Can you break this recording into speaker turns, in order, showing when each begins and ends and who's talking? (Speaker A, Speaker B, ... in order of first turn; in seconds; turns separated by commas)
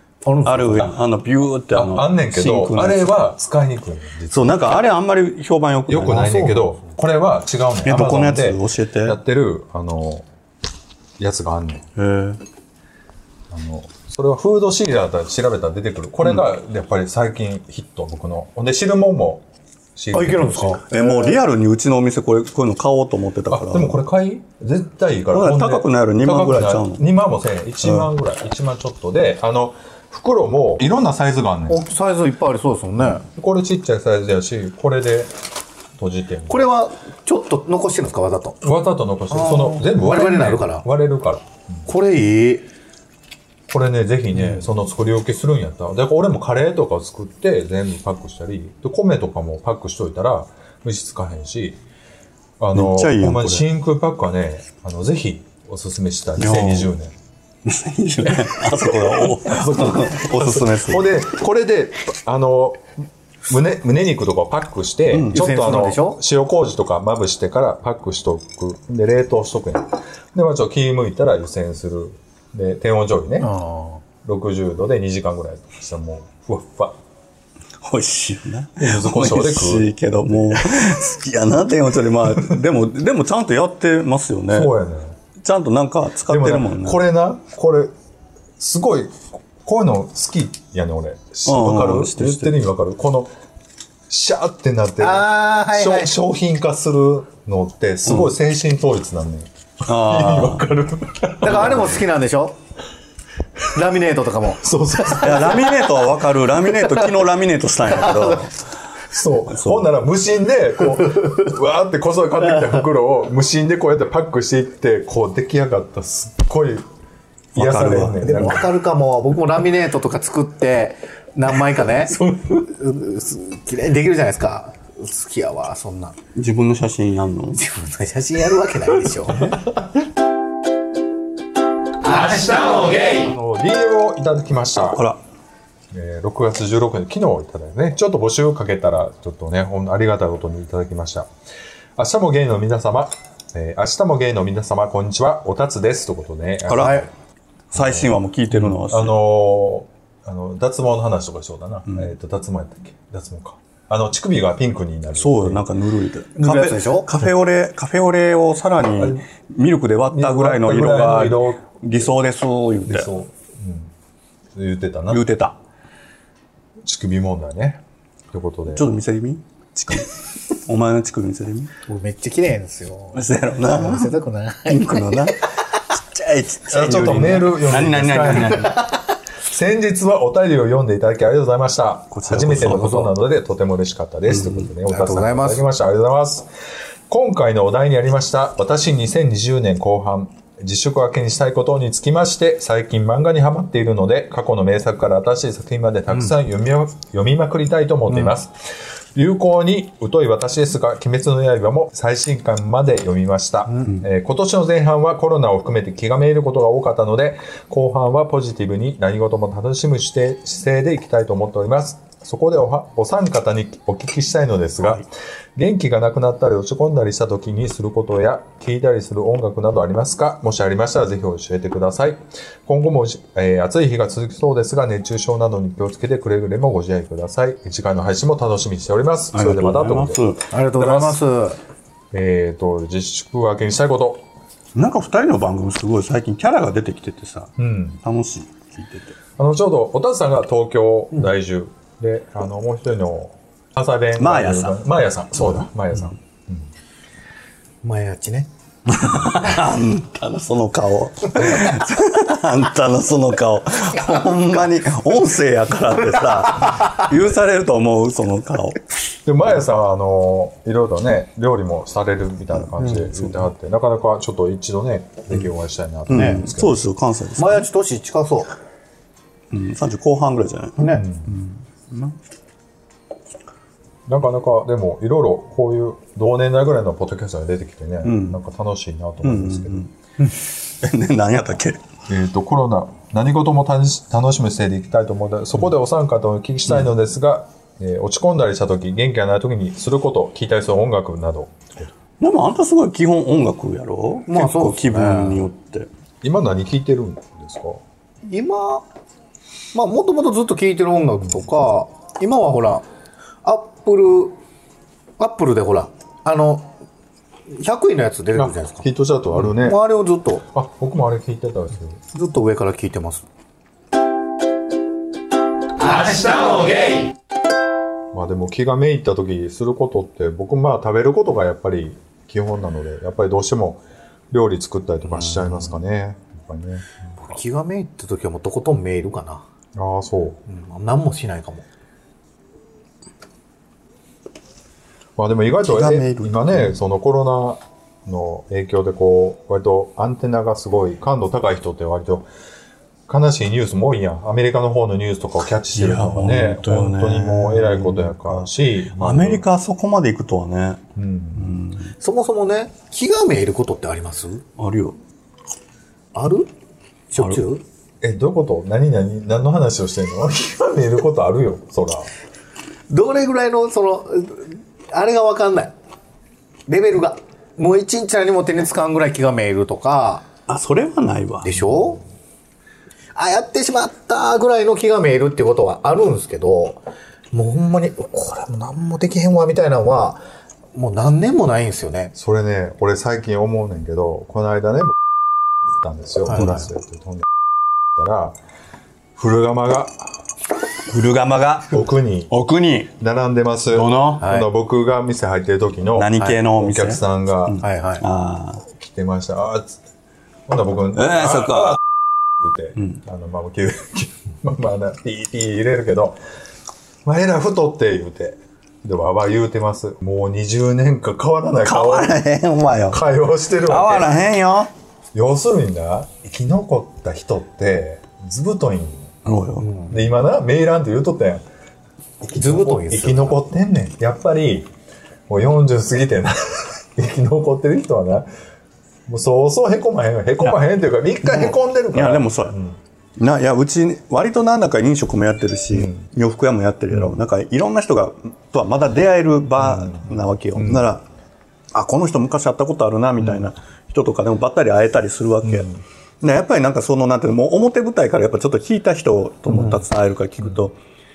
Speaker A: 0.2-0.9, Speaker B: 0.4-3.2, Speaker C: 1.7-4.5, Speaker B: 4.3-6.7, Speaker C: 5.9-10.3, Speaker B: 7.8-9.2, Speaker C: 11.2-11.8, Speaker B: 12.0-12.4, Speaker C: 13.5-19.4, Speaker C: 20.0-20.8, Speaker A: 20.1-21.4, Speaker B: 20.8-24.0, Speaker C: 23.5-31.8, Speaker B: 25.3-27.1, Speaker B: 27.8-28.1, Speaker A: 31.7-33.3, Speaker C: 33.1-35.3, Speaker C: 36.0-36.7, Speaker A: 36.5-38.6, Speaker C: 38.6-41.9, Speaker A: 39.3-40.9, Speaker A: 41.9-42.7, Speaker C: 43.7-51.8, Speaker A: 44.4-44.6, Speaker C: 52.6-57.1, Speaker B: 52.7-53.7, Speaker B: 56.4-56.9, Speaker B: 57.6-61.2, Speaker C: 59.3-62.9, Speaker C: 63.5-73.5, Speaker B: 65.1-65.5, Speaker A: 65.3-66.2, Speaker A: 73.4-74.0, Speaker C: 74.2-77.0, Speaker B: 77.8-84.7, Speaker C: 78.8-80.8, Speaker C: 84.5-85.2, Speaker B: 85.4-87.0, Speaker C: 86.3-87.9, Speaker C: 88.6-93.3, Speaker B: 91.5-92.6, Speaker C: 94.1-102.0, Speaker A: 95.0-96.1, Speaker B: 98.0-98.3, Speaker B: 99.9-100.7, Speaker A: 101.4-102.6, Speaker A: 103.7-105.8, Speaker C: 104.6-105.6, Speaker B: 105.2-108.6, Speaker A: 107.9-108.4, Speaker C: 109.1-116.9, Speaker B: 109.5-109.9, Speaker B: 117.5-118.7, Speaker C: 117.6-118.7, Speaker A: 118.2-126.2, Speaker B: 126.3-127.7, Speaker A: 127.6-129.6, Speaker C: 133.2-135.0, Speaker B: 134.8-135.2, Speaker C: 135.9-141.3, Speaker C: 142.0-147.1, Speaker B: 146.7-147.0, Speaker A: 146.8-147.1, Speaker B: 147.7-149.2, Speaker C: 147.7-155.7, Speaker B: 155.2-163.1, Speaker A: 156.4-157.2, Speaker C: 158.8-159.2, Speaker C: 160.1-162.1, Speaker C: 162.9-163.9, Speaker C: 164.6-165.2, Speaker B: 165.1-165.6, Speaker C: 166.8-168.9, Speaker B: 168.7-171.7, Speaker A: 171.9-175.3, Speaker B: 173.1-174.1, Speaker B: 174.7-178.8, Speaker C: 176.7-178.7, Speaker A: 178.7-179.0, Speaker C: 179.4-186.5, Speaker B: 182.1-183.0, Speaker A: 182.5-183.2, Speaker B: 184.3-184.7, Speaker A: 184.8-185.8, Speaker C: 187.1-198.6, Speaker C: 199.2-230.2, Speaker B: 229.3-230.4, Speaker A: 230.5-231.6, Speaker C: 230.7-231.2, Speaker C: 232.1-234.2, Speaker B: 234.8-239.2, Speaker C: 237.6-238.0, Speaker C: 239.4-246.7, Speaker B: 244.2-244.9, Speaker A: 247.8-248.5, Speaker B: 248.9-258.8, Speaker C: 251.4-251.7, Speaker A: 256.5-257.0, Speaker C: 259.2-266.9, Speaker B: 262.5-263.5, Speaker B: 266.1-267.7, Speaker A: 266.1-266.4, Speaker A: 267.4-268.5, Speaker B: 269.5-272.2, Speaker A: 270.8-271.1, Speaker C: 270.9-271.3, Speaker C: 274.1-279.9, Speaker B: 278.0-278.4, Speaker B: 279.2-281.8, Speaker C: 282.1-291.9, Speaker B: 292.2-295.9, Speaker A: 294.3-295.5, Speaker C: 296.2-297.8, Speaker A: 298.3-298.9, Speaker A: 299.7-302.9, Speaker A: 303.4-304.4, Speaker A: 305.2-306.7, Speaker A: 307.6-308.9, Speaker C: 308.3-309.8, Speaker A: 309.4-310.4, Speaker C: 310.5-312.0, Speaker A: 312.1-313.3, Speaker C: 318.1-327.3, Speaker A: 327.2-329.4, Speaker C: 329.8-330.4, Speaker A: 330.5-331.7, Speaker C: 335.2-342.3, Speaker B: 335.6-336.8, Speaker C: 343.1-349.4, Speaker B: 345.6-350.8, Speaker C: 351.0-351.6, Speaker B: 351.4-352.0, Speaker A: 352.0-354.4, Speaker B: 354.6-355.0, Speaker A: 356.1-356.5, Speaker A: 357.1-357.6, Speaker B: 357.2-357.4, Speaker C: 358.0-362.1, Speaker A: 362.9-365.7, Speaker A: 366.7-370.3, Speaker B: 370.5-371.6, Speaker A: 371.4-372.0, Speaker A: 373.1-376.8, Speaker A: 377.3-380.2, Speaker A: 380.8-382.1, Speaker C: 382.2-385.0, Speaker C: 385.7-387.3, Speaker A: 386.3-386.6, Speaker B: 386.4-386.6, Speaker C: 388.0-388.4, Speaker C: 389.2-390.1, Speaker B: 390.9-392.9, Speaker C: 391.7-392.3, Speaker C: 393.0-397.6, Speaker B: 393.7-394.3, Speaker A: 394.2-394.5, Speaker B: 395.9-398.6, Speaker A: 397.6-398.1, Speaker C: 398.7-399.8, Speaker C: 400.5-401.8, Speaker B: 400.9-401.8, Speaker C: 402.4-406.2, Speaker C: 407.1-412.2, Speaker B: 411.6-413.0, Speaker C: 412.9-414.2, Speaker B: 413.6-414.7, Speaker C: 415.1-419.1, Speaker B: 419.2-419.7, Speaker A: 419.6-420.0, Speaker C: 419.9-421.4, Speaker C: 422.2-424.7, Speaker A: 422.3-423.5, Speaker C: 425.3-428.3, Speaker C: 429.1-432.8, Speaker B: 431.2-432.6, Speaker B: 433.2-441.1, Speaker C: 435.7-436.1, Speaker C: 436.9-437.2, Speaker C: 439.6-440.9, Speaker B: 441.7-445.7, Speaker C: 445.4-445.8, Speaker B: 446.2-450.8